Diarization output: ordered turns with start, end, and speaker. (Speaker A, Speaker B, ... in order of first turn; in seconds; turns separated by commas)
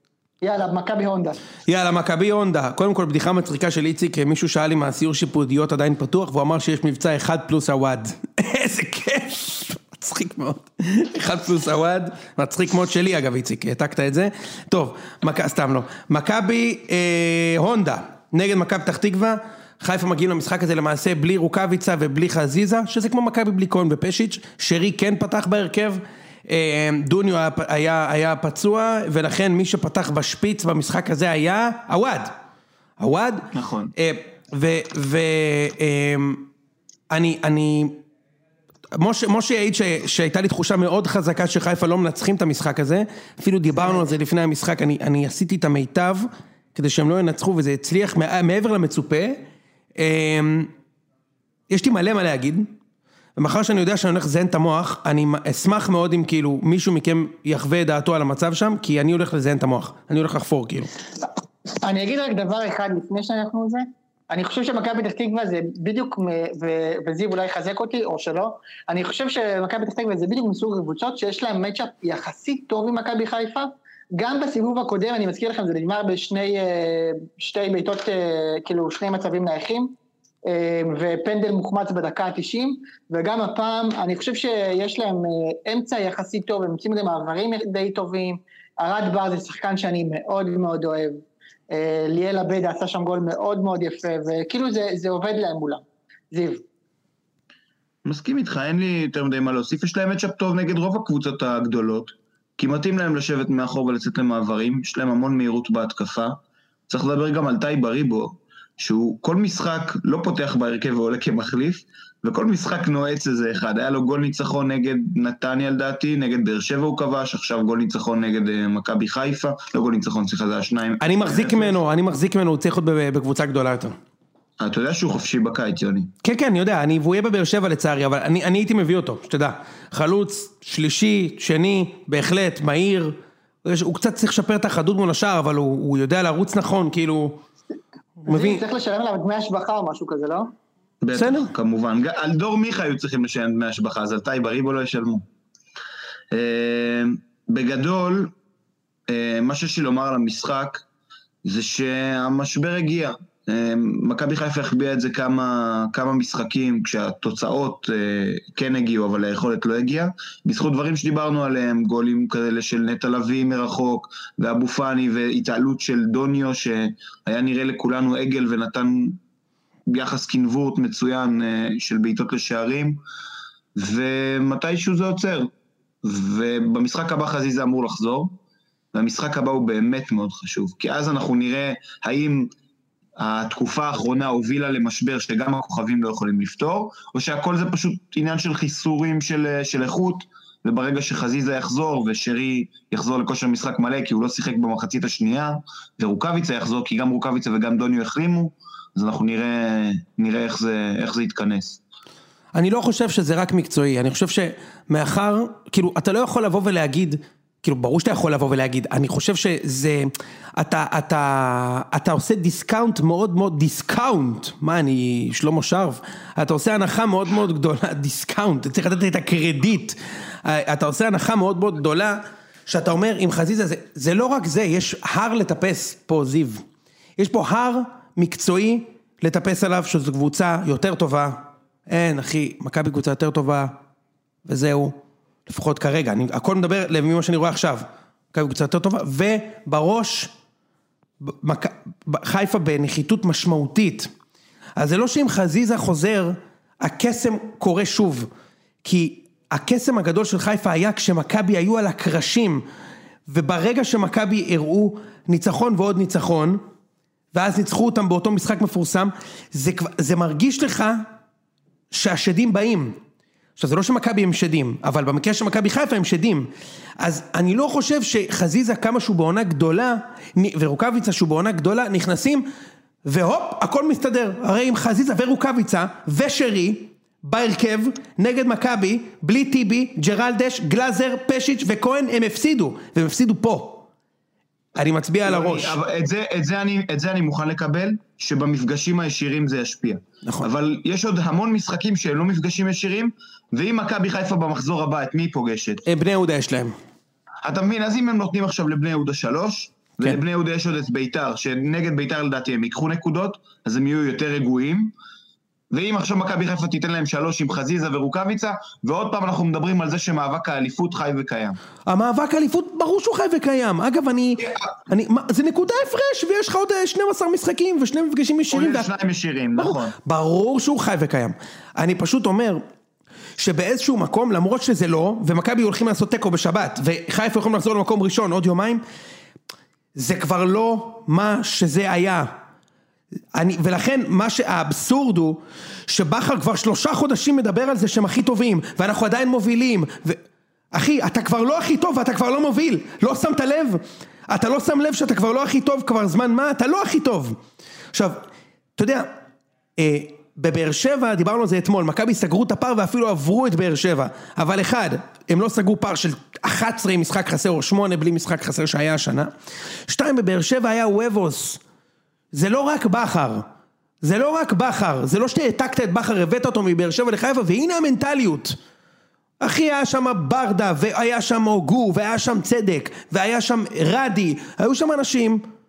Speaker A: 0.4-1.4, Speaker B: 1.7-32.3, Speaker B: 33.0-36.5, Speaker C: 33.5-33.9, Speaker B: 37.1-38.0, Speaker B: 38.9-49.4, Speaker B: 50.0-50.7, Speaker B: 51.7-52.7, Speaker B: 53.4-60.9, Speaker A: 61.8-96.7, Speaker C: 98.1-121.8, Speaker B: 121.0-124.0, Speaker C: 124.6-126.1, Speaker B: 126.2-137.4, Speaker B: 138.2-138.6, Speaker A: 138.3-140.5, Speaker C: 141.0-145.3, Speaker B: 141.2-141.5, Speaker C: 146.3-148.3, Speaker C: 149.1-150.8, Speaker C: 151.4-169.2, Speaker C: 169.9-173.0, Speaker C: 173.8-175.5, Speaker C: 176.0-178.4, Speaker C: 178.9-182.5, Speaker C: 183.2-201.8, Speaker B: 202.5-226.7, Speaker B: 227.2-233.8, Speaker B: 234.5-240.3, Speaker B: 241.2-244.1, Speaker B: 244.8-248.3, Speaker B: 248.8-252.7, Speaker B: 253.3-256.6, Speaker B: 257.3-261.1, Speaker B: 261.9-263.0, Speaker B: 263.6-272.5, Speaker B: 273.1-283.9, Speaker B: 284.8-285.8, Speaker C: 285.3-295.9, Speaker B: 295.9-296.8, Speaker C: 297.4-304.9, Speaker C: 305.7-311.6, Speaker B: 311.9-318.9, Speaker C: 318.5-319.9, Speaker B: 319.6-322.6, Speaker B: 323.4-328.8, Speaker B: 330.0-332.3, Speaker B: 333.3-340.2, Speaker B: 340.7-347.4, Speaker B: 347.9-348.3, Speaker B: 348.8-349.1, Speaker B: 349.8-359.3, Speaker B: 359.9-361.6, Speaker B: 362.3-363.5, Speaker B: 364.0-368.6, Speaker B: 369.4-375.5